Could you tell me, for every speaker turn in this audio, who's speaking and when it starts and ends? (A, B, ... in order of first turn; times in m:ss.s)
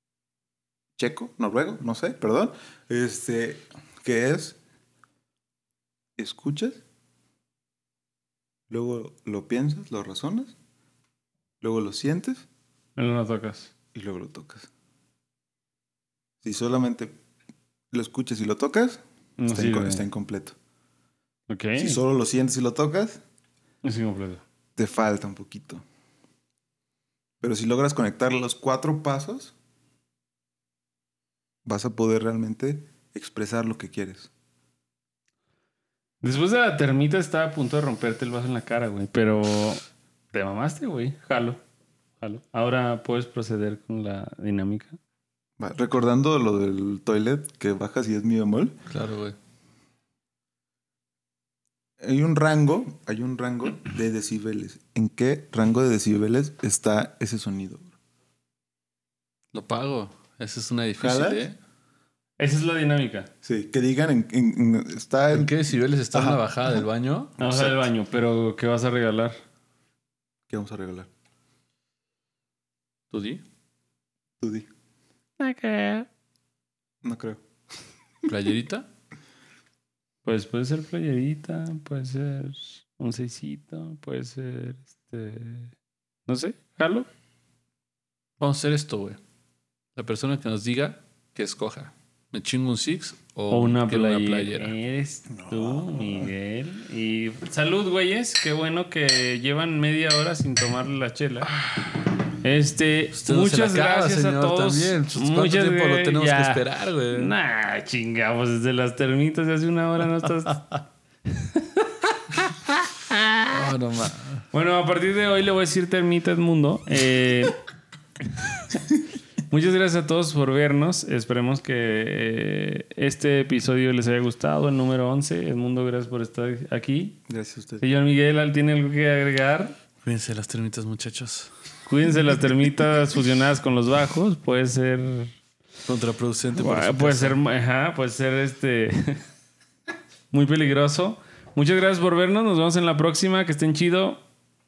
0:01.0-0:04.6 A
0:06.2-0:06.8 A
0:08.7-0:10.6 A
0:11.6-0:12.5 A
0:13.0-0:13.7 B
0:13.9-0:14.7 A
0:16.4-0:17.1 A
0:17.9-0:20.6 A
0:19.4-0:20.0 B
0:21.5-0:22.0 B
0:21.8-0:23.2 A
0:23.8-0:24.4 B
0:24.8-0:25.8 A
0:27.4-0:29.6 A
0:31.7-0:34.3 A
0:36.2-0:41.6 B
0:42.2-0:45.0 B
0:45.6-0:48.8 A
0:48.9-0:49.4 C
0:52.0-0:57.9 A
0:59.5-1:01.6 C
1:01.0-1:01.4 A
1:02.4-1:03.3 B
1:03.4-1:06.8 A
1:05.3-1:07.4 C
1:07.4-1:09.4 B
1:07.4-1:07.8 A
1:10.5-1:11.1 A
1:13.1-1:13.4 C
1:14.4-1:14.7 A
1:15.4-1:16.1 B
1:17.0-1:17.4 A
1:18.3-1:18.9 C
1:20.2-1:25.7 B
1:26.3-1:27.1 B
1:28.4-1:29.2 C
1:30.0-1:34.8 C
1:33.5-1:41.6 B
1:35.3-1:36.3 A
1:42.3-1:51.8 B
1:43.1-1:47.3 C
1:52.4-1:53.5 B
1:53.5-1:54.5 C
1:54.5-1:57.6 B
1:59.5-2:07.2 B
2:07.3-2:07.8 A
2:07.8-2:09.8 B
2:10.0-2:11.5 C
2:11.9-2:15.4 B
2:15.9-2:17.4 C
2:16.6-2:19.2 B
2:20.3-2:24.2 B